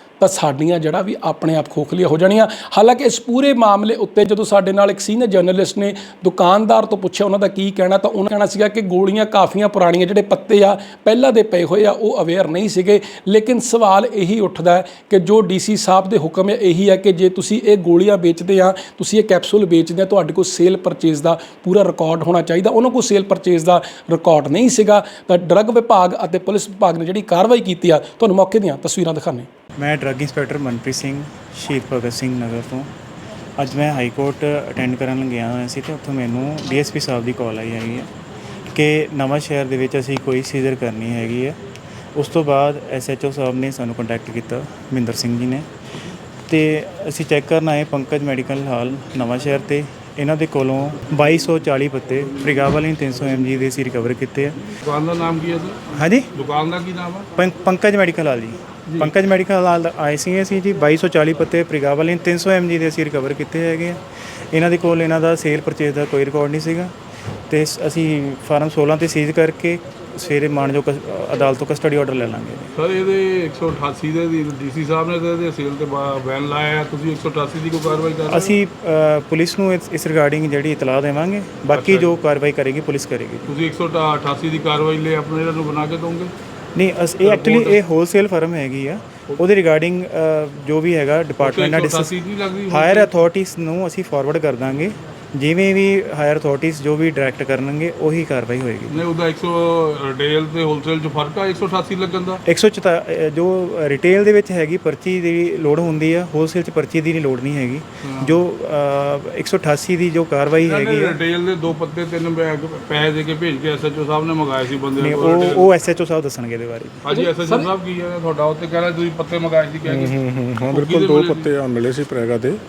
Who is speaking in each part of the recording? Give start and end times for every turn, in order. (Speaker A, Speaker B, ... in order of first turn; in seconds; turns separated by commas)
Speaker A: 0.2-29.5, Speaker B: 29.8-32.9, Speaker B: 33.6-38.1, Speaker B: 38.7-41.6, Speaker B: 42.1-45.7, Speaker B: 46.5-54.6, Speaker C: 54.8-57.3, Speaker B: 55.9-56.3, Speaker B: 57.4-64.0, Speaker B: 64.5-66.9, Speaker B: 67.5-72.7, Speaker C: 72.7-78.5, Speaker B: 78.3-83.5, Speaker C: 81.7-82.1, Speaker C: 83.5-86.3, Speaker B: 86.7-92.2, Speaker C: 87.2-87.8, Speaker C: 91.4-93.1, Speaker B: 92.7-99.0, Speaker C: 98.9-102.4, Speaker B: 102.4-111.2, Speaker C: 108.0-108.4, Speaker C: 110.6-115.7, Speaker B: 115.0-117.0, Speaker C: 117.0-120.2, Speaker A: 117.1-117.7, Speaker D: 119.8-122.6, Speaker C: 120.7-121.5